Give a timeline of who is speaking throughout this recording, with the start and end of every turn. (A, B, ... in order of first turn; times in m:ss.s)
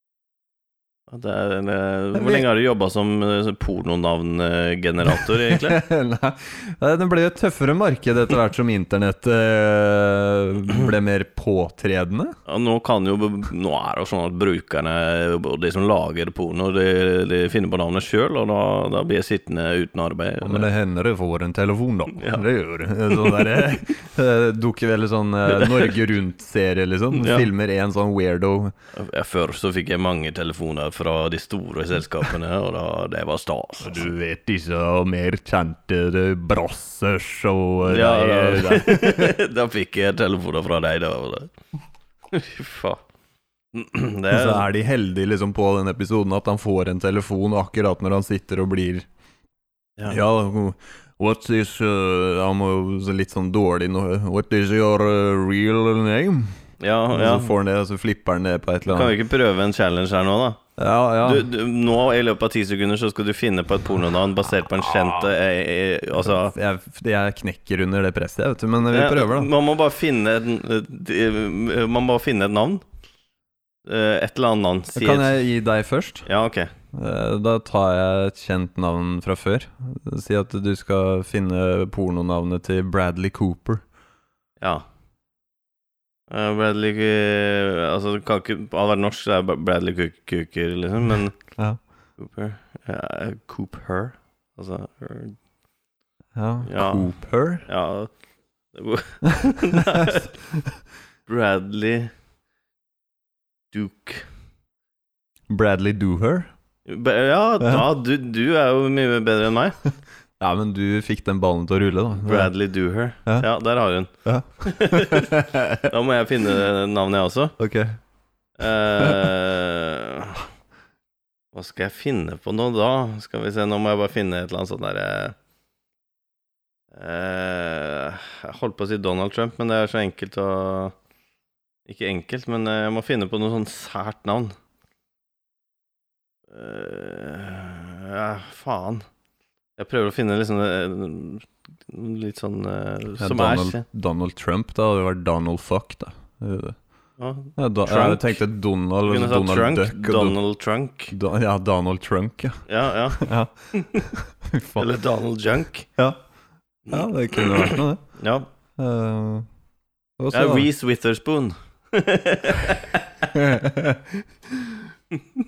0:01.1-0:05.8 A
0:02.2-0:02.4 B
0:05.2-0:12.4 B
0:12.5-0:20.7 A
0:20.4-0:28.7 B
0:22.2-0:22.4 A
0:25.5-0:25.9 A
0:27.1-0:27.5 A
0:28.9-0:34.1 A
0:33.8-0:39.4 B
0:37.8-0:41.5 A
0:42.3-0:43.0 A
0:43.7-0:44.7 A
0:44.3-0:49.1 B
0:50.1-0:56.5 B
0:56.8-0:57.5 A
0:57.1-0:59.2 B
0:58.9-1:00.6 A
1:00.8-1:01.5 B
1:01.2-1:06.5 A
1:06.2-1:09.5 B
1:08.9-1:12.8 A
1:13.9-1:15.3 A
1:15.0-1:16.3 B
1:16.3-1:16.7 A
1:16.9-1:23.8 B
1:26.3-1:31.4 A
1:32.2-1:35.4 A
1:36.4-1:37.6 B
1:36.6-1:37.1 A
1:37.6-1:38.1 A
1:38.7-1:40.3 A
1:39.5-1:40.7 B
1:41.3-1:42.1 A
1:43.7-1:44.3 A
1:45.5-1:46.5 B
1:46.9-1:49.8 A
1:50.4-1:52.5 B
1:52.2-1:57.6 A
1:54.2-1:55.9 B
1:57.6-1:58.0 B
1:58.6-2:00.4 A
2:01.5-2:05.4 A
2:06.9-2:11.0 A
2:11.9-2:14.6 A
2:16.5-2:19.1 A
2:19.8-2:23.8 A
2:23.2-2:26.8 B
2:27.2-2:28.4 A
2:27.6-2:30.4 B
2:29.0-2:31.1 A
2:31.1-2:32.6 B
2:32.7-2:34.1 A
2:33.1-2:34.9 B
2:34.8-2:35.9 A
2:36.9-2:38.0 B
2:36.9-2:38.5 A
2:38.8-2:39.5 B
2:40.2-2:40.7 B
2:40.3-2:43.3 A
2:43.3-2:44.8 B